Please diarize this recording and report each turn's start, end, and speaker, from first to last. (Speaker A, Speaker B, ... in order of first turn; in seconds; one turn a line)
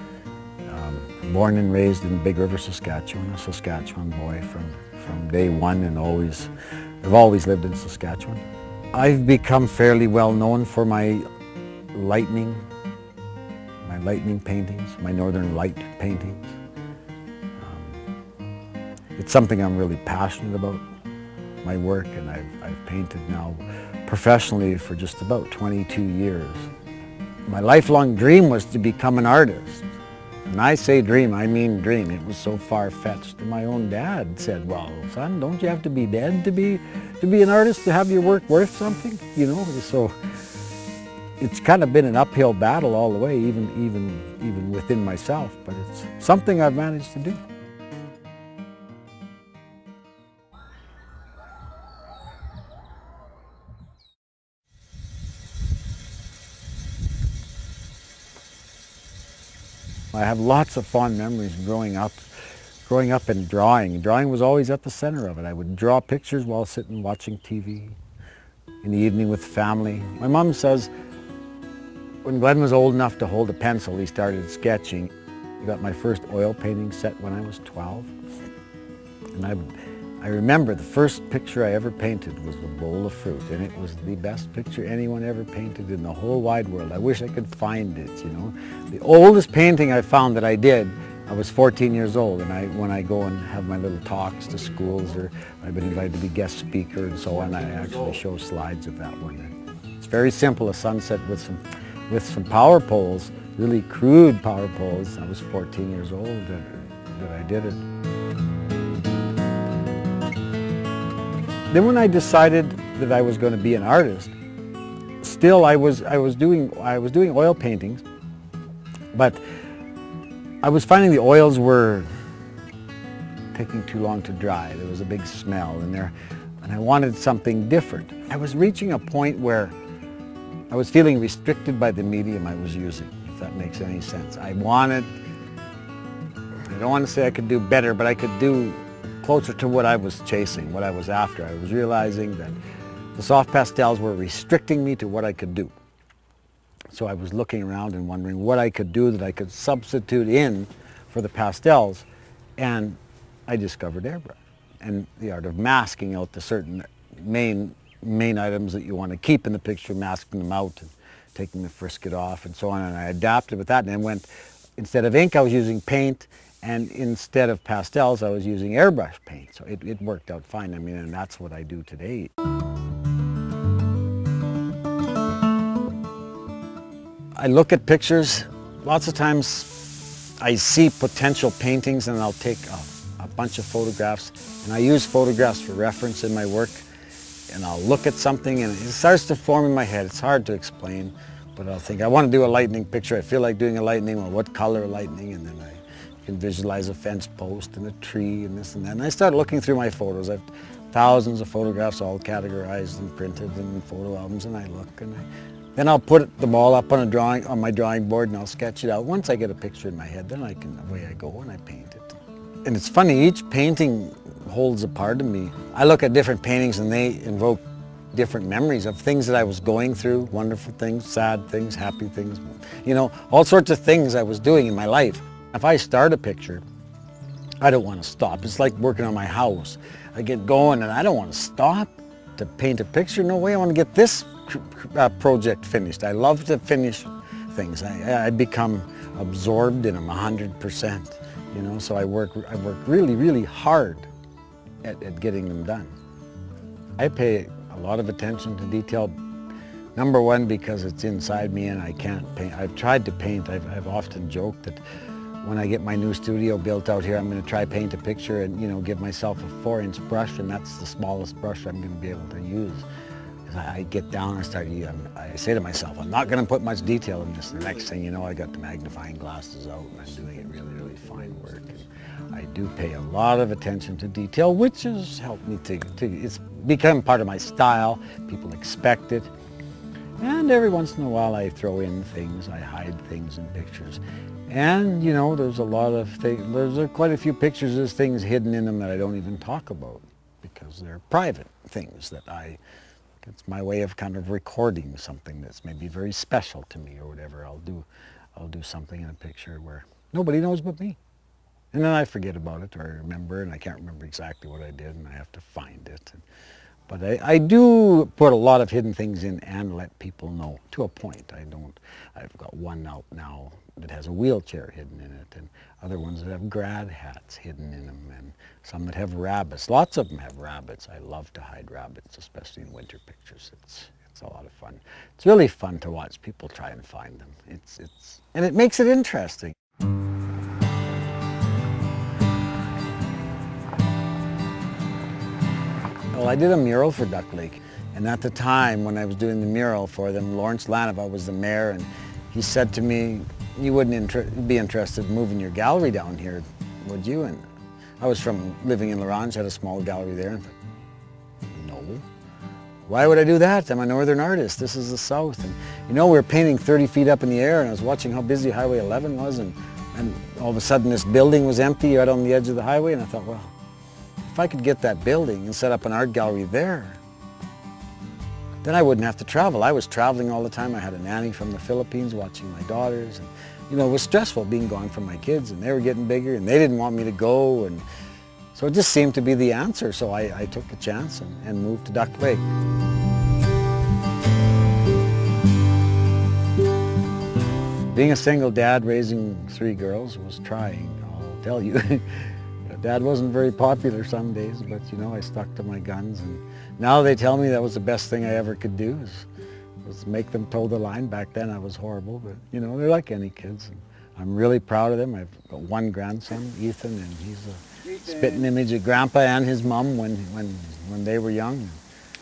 Speaker A: 0.6-6.5
Speaker A: 7.0-11.2
Speaker A: 11.9-12.7
Speaker A: 13.8-16.6
Speaker A: 17.6-18.0
Speaker A: 19.1-20.8
Speaker A: 21.6-26.7
Speaker A: 27.5-29.9
Speaker A: 30.4-40.1
Speaker A: 41.4-47.4
Speaker A: 60.1-62.3
Speaker A: 62.9-68.0
Speaker A: 68.8-70.9
Speaker A: 72.2-78.1
Speaker A: 79.3-107.8
Speaker A: 111.7-114.3
Speaker A: 115.2-118.0
Speaker A: 119.1-119.4
Speaker A: 120.6-122.1
Speaker A: 123.5-129.7
Speaker A: 130.7-135.1
Speaker A: 136.7-142.6
Speaker A: 143.1-145.7
Speaker A: 146.9-152.1
Speaker A: 152.6-172.3
Speaker A: 177.4-179.9
Speaker A: 180.4-186.8
Speaker A: 187.5-226.6
Speaker A: 227.6-244.1
Speaker A: 244.8-245.9
Speaker A: 247.0-249.1
Speaker A: 249.9-254.8
Speaker A: 255.4-262.9
Speaker A: 263.4-279.3
Speaker A: 280.2-292.6
Speaker A: 293.2-301.0
Speaker A: 301.7-306.2
Speaker A: 306.9-329.5
Speaker A: 336.1-347.4
Speaker A: 348.0-350.5
Speaker A: 351.4-352.1
Speaker A: 352.9-363.5
Speaker A: 364.2-367.0
Speaker A: 368.6-377.8
Speaker A: 378.5-382.4
Speaker A: 387.9-399.3
Speaker A: 399.8-411.8